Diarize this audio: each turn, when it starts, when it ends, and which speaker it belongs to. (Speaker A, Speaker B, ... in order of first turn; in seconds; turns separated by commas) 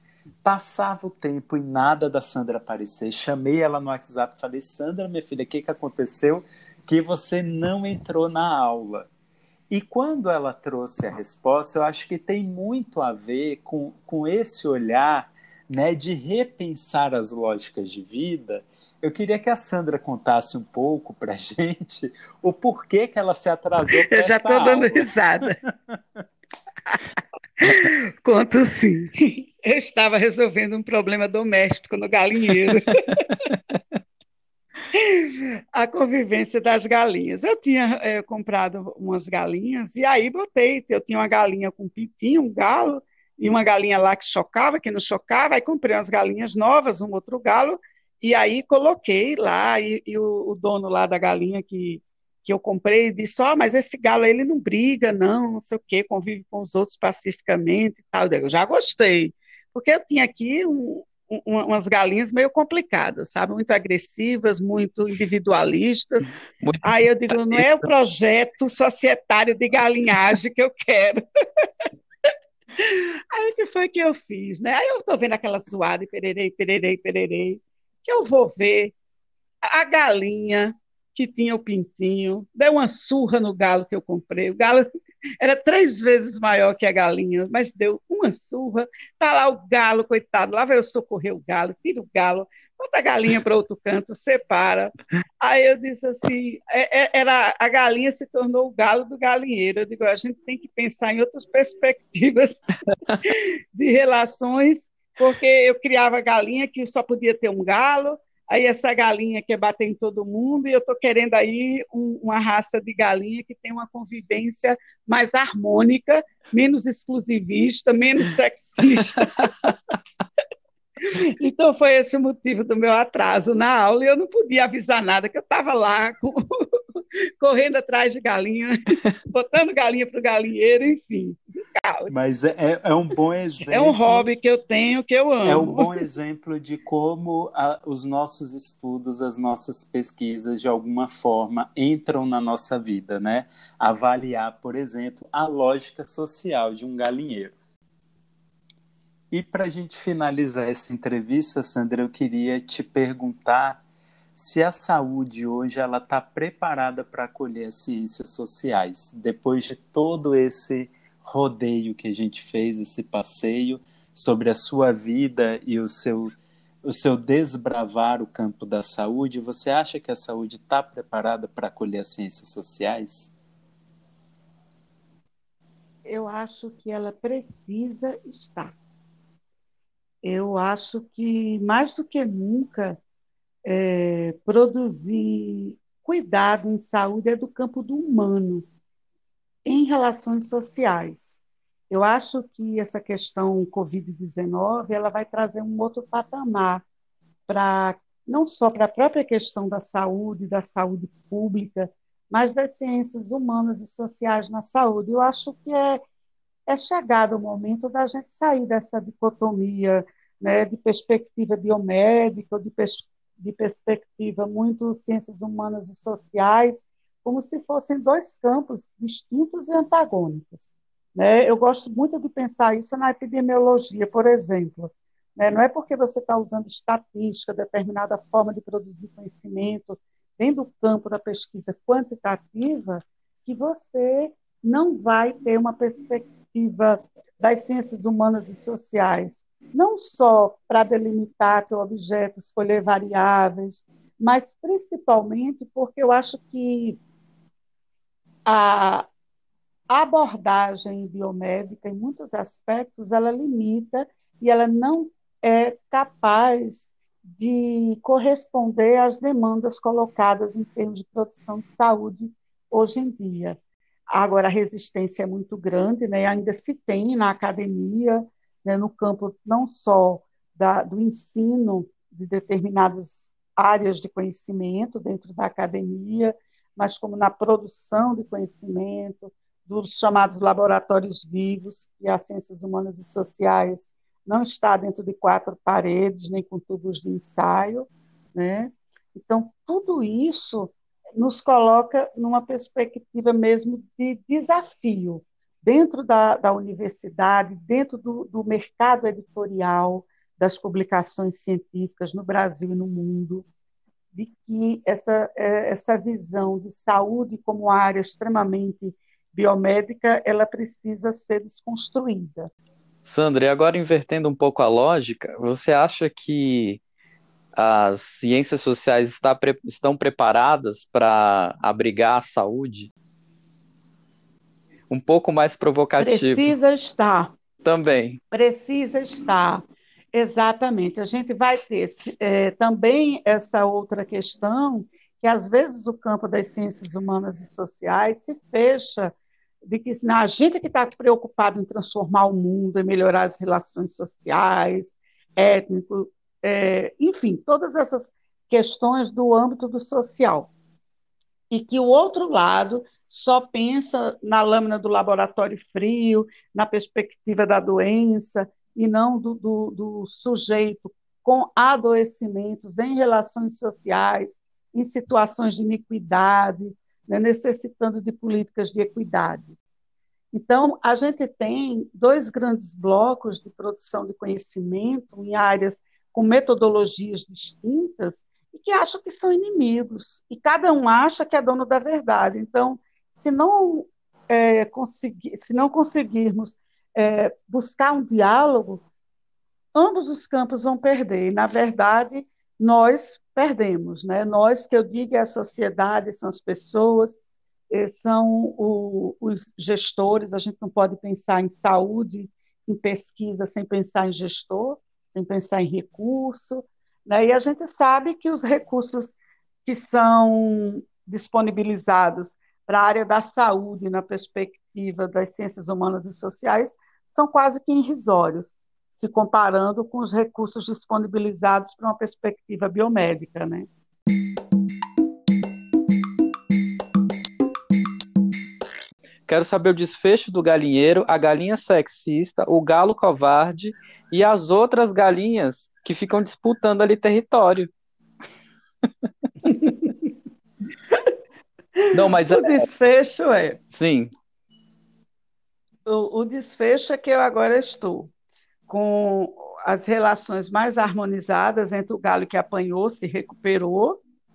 Speaker A: 0.4-9.1, Speaker A: 9.7-25.1, Speaker B: 24.1-25.6, Speaker A: 25.6-26.0, Speaker B: 27.6-33.4, Speaker B: 34.9-71.2, Speaker C: 66.6-67.8, Speaker B: 72.8-79.0, Speaker B: 79.7-84.9, Speaker B: 85.4-102.6, Speaker B: 103.2-119.5, Speaker B: 121.0-126.4, Speaker B: 127.4-132.1, Speaker A: 132.1-134.3, Speaker B: 133.7-135.9, Speaker A: 135.4-147.6, Speaker A: 149.3-153.8, Speaker A: 154.3-173.3, Speaker B: 176.1-178.8, Speaker B: 180.2-183.0, Speaker B: 183.7-188.7, Speaker B: 189.7-196.8, Speaker B: 197.5-206.0, Speaker B: 206.7-247.0, Speaker B: 248.5-249.1, Speaker B: 249.9-263.6, Speaker B: 264.1-303.5, Speaker B: 304.1-312.5, Speaker C: 313.1-316.8, Speaker C: 317.6-322.9, Speaker C: 324.9-326.5, Speaker B: 326.0-327.3, Speaker C: 327.6-328.2, Speaker B: 328.3-350.5, Speaker B: 351.5-369.6, Speaker B: 370.3-388.8, Speaker B: 389.8-397.2, Speaker B: 397.7-423.7, Speaker C: 429.3-437.7, Speaker B: 439.4-440.1, Speaker B: 441.8-443.6, Speaker C: 441.9-442.7, Speaker C: 443.7-444.1, Speaker B: 445.9-448.1, Speaker B: 448.7-454.0